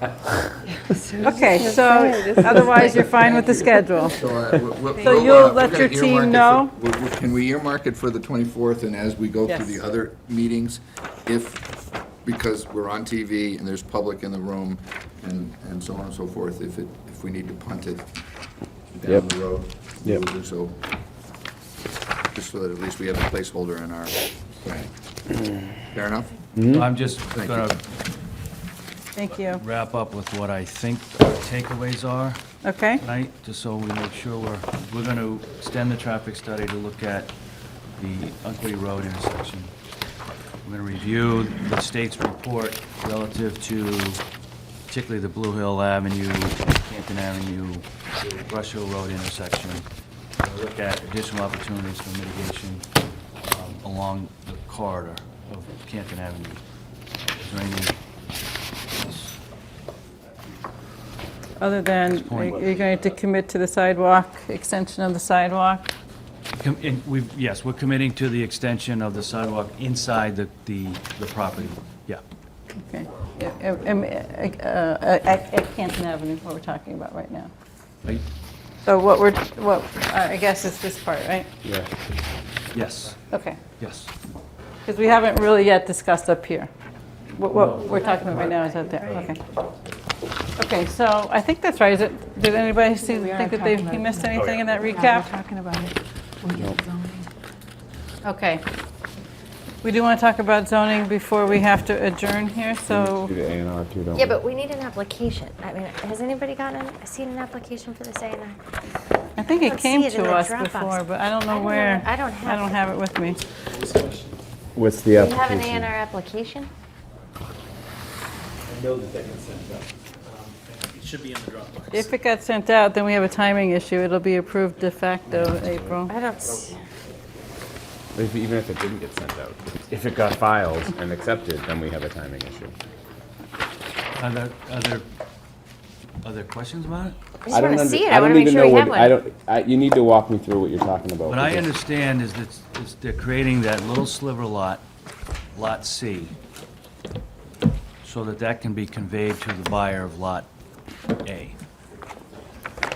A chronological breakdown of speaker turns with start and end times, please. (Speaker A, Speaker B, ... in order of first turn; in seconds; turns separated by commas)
Speaker A: 0.9-4.2, Speaker B: 1.2-4.2, Speaker C: 3.0-18.0, Speaker B: 5.0-6.7, Speaker B: 9.5-9.8, Speaker C: 18.9-20.8, Speaker C: 22.3-24.9, Speaker C: 25.9-26.4, Speaker D: 26.6-26.9, Speaker E: 26.7-27.8, Speaker C: 27.3-27.7, Speaker B: 29.1-29.6, Speaker E: 29.4-32.4, Speaker B: 32.6-33.0, Speaker E: 33.0-37.3, Speaker E: 38.0-39.7, Speaker E: 40.6-44.2, Speaker E: 44.9-49.8, Speaker E: 50.4-52.8, Speaker E: 53.4-56.6, Speaker E: 57.3-57.9, Speaker E: 59.0-59.3, Speaker B: 61.6-65.9, Speaker E: 62.0-63.0, Speaker E: 66.5-72.2, Speaker B: 72.8-77.5, Speaker B: 78.8-81.5, Speaker D: 81.6-81.9, Speaker E: 82.7-83.2, Speaker B: 83.3-83.6, Speaker E: 83.8-84.1, Speaker B: 84.8-86.7, Speaker B: 87.3-89.4, Speaker E: 87.5-88.4, Speaker F: 88.0-89.3, Speaker B: 90.6-95.3, Speaker A: 93.0-97.3, Speaker D: 96.5-96.8, Speaker B: 98.2-98.6, Speaker B: 99.8-103.3, Speaker D: 102.9-104.4, Speaker F: 104.1-108.6, Speaker B: 109.4-113.4, Speaker F: 109.6-112.7, Speaker G: 113.7-114.4, Speaker D: 114.8-115.9, Speaker F: 115.1-116.7, Speaker G: 118.7-122.1, Speaker B: 121.9-126.1, Speaker F: 126.1-126.8, Speaker D: 128.1-132.7, Speaker E: 134.1-135.1, Speaker E: 136.2-137.2, Speaker F: 137.4-139.1, Speaker D: 137.5-141.7, Speaker E: 141.3-144.8, Speaker E: 145.5-146.3, Speaker E: 148.0-150.5, Speaker E: 151.2-151.6